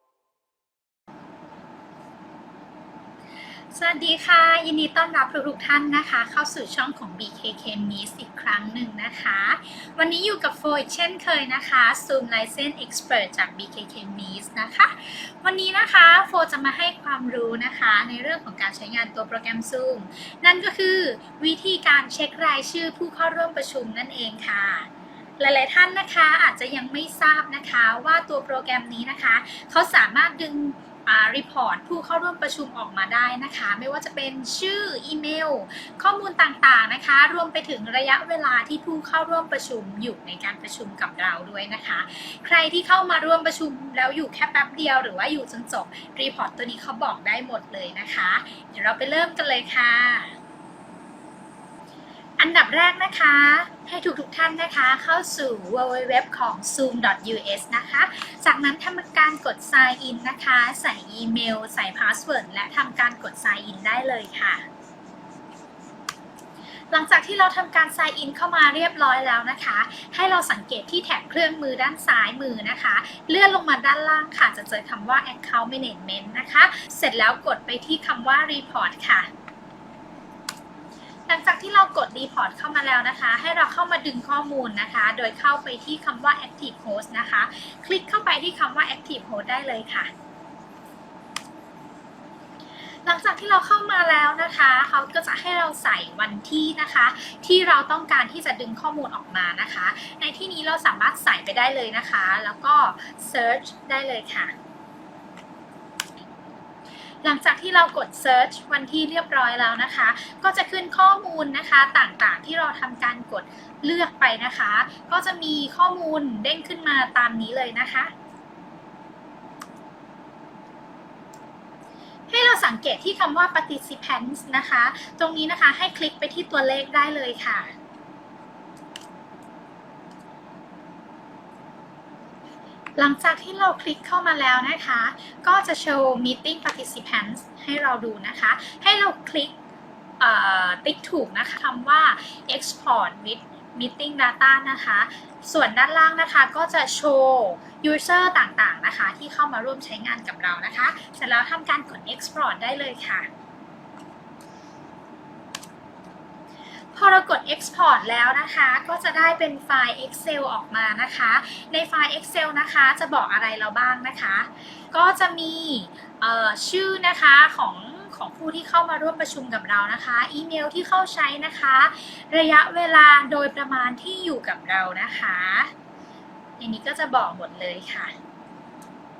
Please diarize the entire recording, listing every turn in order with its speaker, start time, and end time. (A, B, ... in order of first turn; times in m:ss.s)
0:03.7-0:50.4 A
0:52.4-1:04.6 A
1:06.9-1:19.3 A
1:21.3-1:30.1 A
1:33.0-1:44.5 A
1:47.2-1:58.1 A
2:02.3-2:07.7 A
2:13.0-2:19.5 A
2:20.2-2:33.3 A
2:36.9-2:55.7 A
2:56.6-2:58.1 A